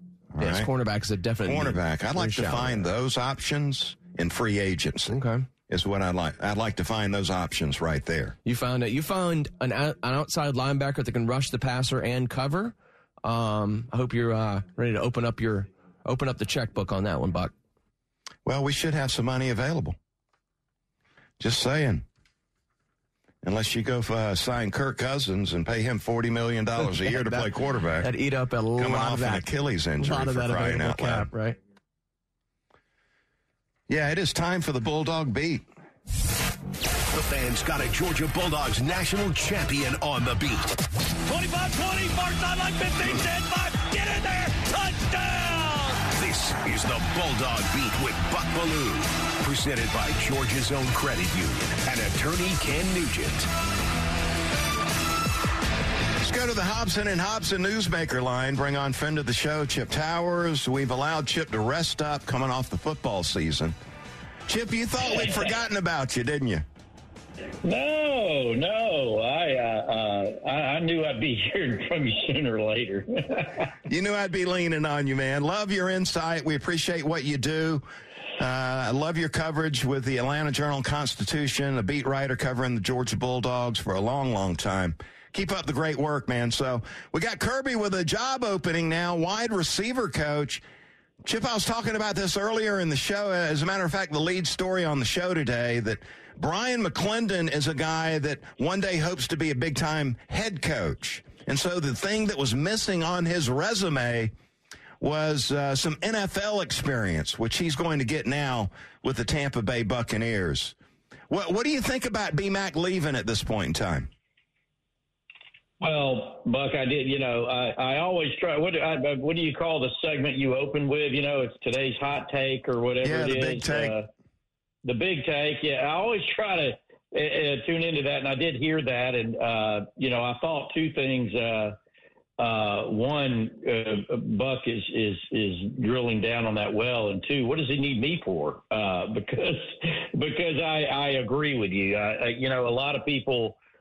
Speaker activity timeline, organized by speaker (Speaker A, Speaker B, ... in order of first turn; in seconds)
Speaker A: 0.3-0.7, 1.4-8.3, 18.4-20.0, 21.4-22.1, 23.4-28.1, 28.8-31.3, 33.9-35.6, 56.2-63.8, 64.5-66.6, 73.9-77.8, 78.4-90.6, 91.2-104.3, 105.0-110.8, 111.3-114.1, 123.0-124.0
Speaker B: 0.4-2.9, 5.1-5.5, 8.4-17.5, 26.8-29.4, 30.0-31.6
Speaker C: 37.1-40.8, 46.1-53.5
Speaker D: 41.3-46.0
Speaker E: 67.6-73.7, 115.8-124.1, 124.8-131.8, 132.4-143.6